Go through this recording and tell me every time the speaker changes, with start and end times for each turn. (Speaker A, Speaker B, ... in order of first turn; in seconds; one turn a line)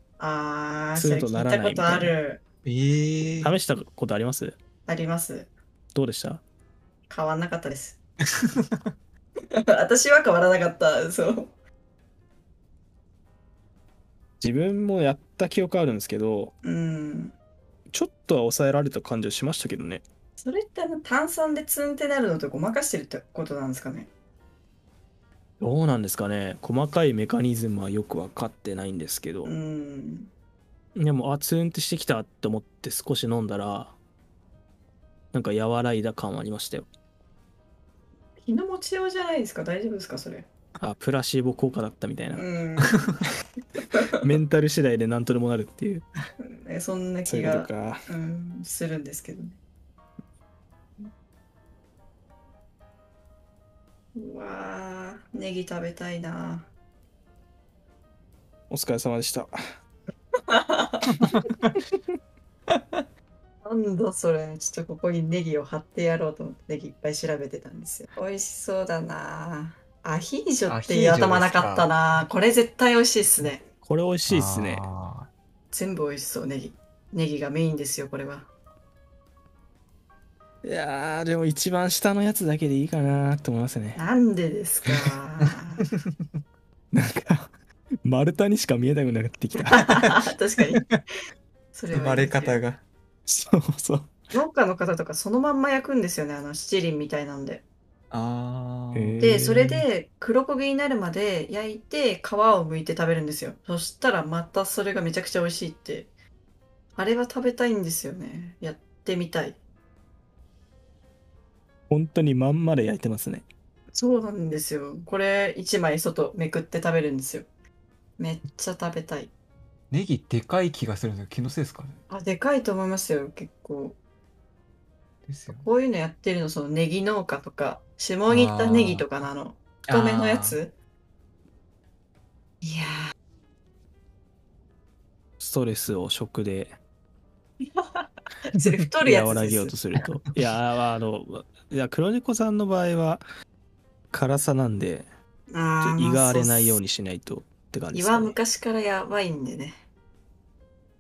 Speaker A: 0.2-2.4
Speaker B: 0.9-2.1
Speaker C: 2.6-3.6
Speaker B: 3.4-4.6
Speaker A: 4.9-5.5
Speaker B: 5.9-6.4
Speaker A: 7.1-8.0
Speaker A: 9.6-11.5
Speaker B: 14.4-16.5
Speaker A: 16.6-17.3
Speaker B: 17.9-20.0
Speaker A: 20.4-24.1
Speaker B: 25.6-29.5
Speaker A: 29.4-30.3
Speaker B: 30.9-34.0
Speaker B: 35.3-36.9
Speaker A: 38.4-40.5
Speaker B: 40.8-42.5
Speaker A: 42.3-43.2
Speaker B: 44.2-46.0
Speaker A: 46.4-49.6
Speaker B: 47.2-48.1
Speaker A: 54.1-56.7
Speaker B: 58.7-59.5
Speaker A: 60.5-61.2
Speaker C: 61.2-61.8
Speaker A: 63.6-73.6
Speaker C: 70.7-71.9
Speaker B: 73.8-74.8
Speaker C: 74.3-75.3
Speaker A: 75.7-78.5
Speaker B: 80.6-84.0
Speaker A: 84.0-85.8
Speaker B: 86.9-87.5
Speaker B: 88.0-90.2
Speaker A: 89.7-90.8
Speaker A: 91.7-92.6
Speaker C: 91.9-92.8
Speaker B: 93.3-94.1
Speaker A: 94.3-97.6
Speaker C: 98.1-99.2
Speaker B: 98.9-99.8
Speaker A: 99.2-106.1
Speaker A: 107.0-109.6
Speaker B: 111.9-113.4
Speaker A: 113.9-117.5
Speaker A: 118.2-119.3
Speaker C: 119.9-122.0
Speaker A: 122.1-124.0
Speaker C: 125.2-125.7
Speaker A: 125.5-130.7
Speaker C: 128.3-129.1
Speaker C: 129.8-130.6
Speaker A: 132.6-133.1
Speaker B: 135.4-136.8
Speaker A: 137.6-139.7
Speaker B: 139.0-143.2
Speaker B: 144.1-145.1
Speaker A: 145.5-146.8
Speaker B: 145.8-148.4
Speaker A: 147.9-149.8